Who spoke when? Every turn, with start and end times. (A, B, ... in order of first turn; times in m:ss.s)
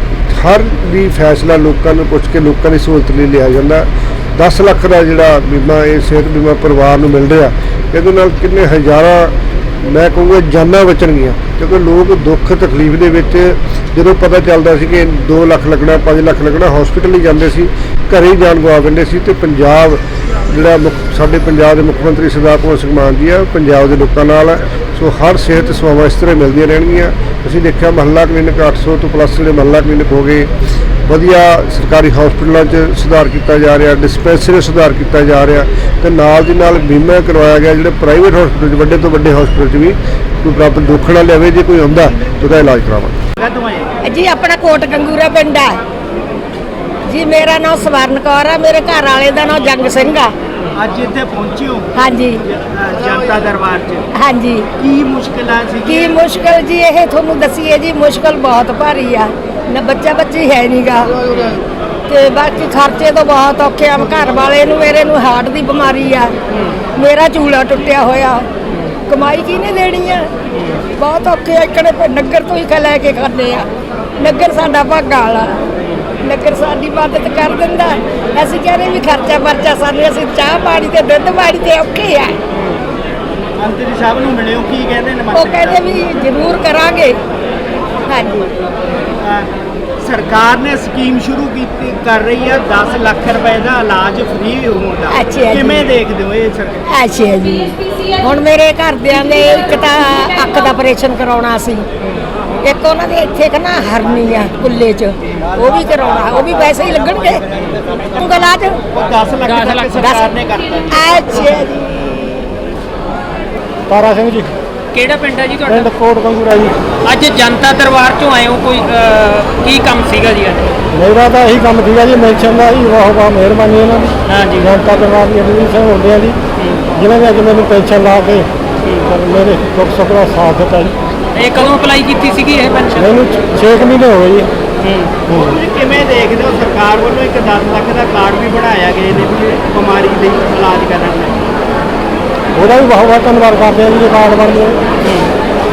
0:00.3-0:30.5 A
0:31.1-0:43.2 A
0:43.4-0:43.9 B
0:44.0-0:45.8 C
0:47.0-0:50.3 C
0:50.7-0:54.1 B
0:51.9-0:52.4 C
0:54.1-0:54.7 C
0:54.8-0:56.2 B
0:55.8-1:01.2 C
1:01.3-1:01.6 D
1:02.1-1:06.3 C
1:06.5-1:06.8 D
1:07.0-1:08.5 C
1:08.7-1:08.9 D
1:09.0-1:10.3 C
1:10.5-1:10.8 D
1:11.0-1:13.7 C
1:14.2-1:15.6 C
1:16.2-1:22.4 C
1:22.5-1:22.8 D
1:23.6-1:25.9 B
1:25.3-1:27.2 C
1:28.1-1:28.5 C
1:29.2-1:36.8 B
1:35.1-1:35.9 C
1:36.9-1:41.8 C
1:42.6-1:47.4 C
1:48.1-1:48.8 C
1:48.9-1:51.4 B
1:49.4-1:49.9 D
1:49.9-1:50.3 C
1:50.9-1:52.6 C
1:53.9-1:54.5 E
1:54.9-1:55.9 D
1:55.7-1:56.7 E
1:57.0-2:00.7 D
2:00.9-2:06.4 E
2:04.2-2:04.7 D
2:06.6-2:06.9 D
2:07.0-2:08.5 E
2:08.8-2:09.1 D
2:09.0-2:10.9 E
2:11.3-2:13.2 D
2:13.0-2:14.5 E
2:14.8-2:15.3 D
2:15.3-2:21.4 B
2:22.6-2:24.8 E
2:25.0-2:25.3 D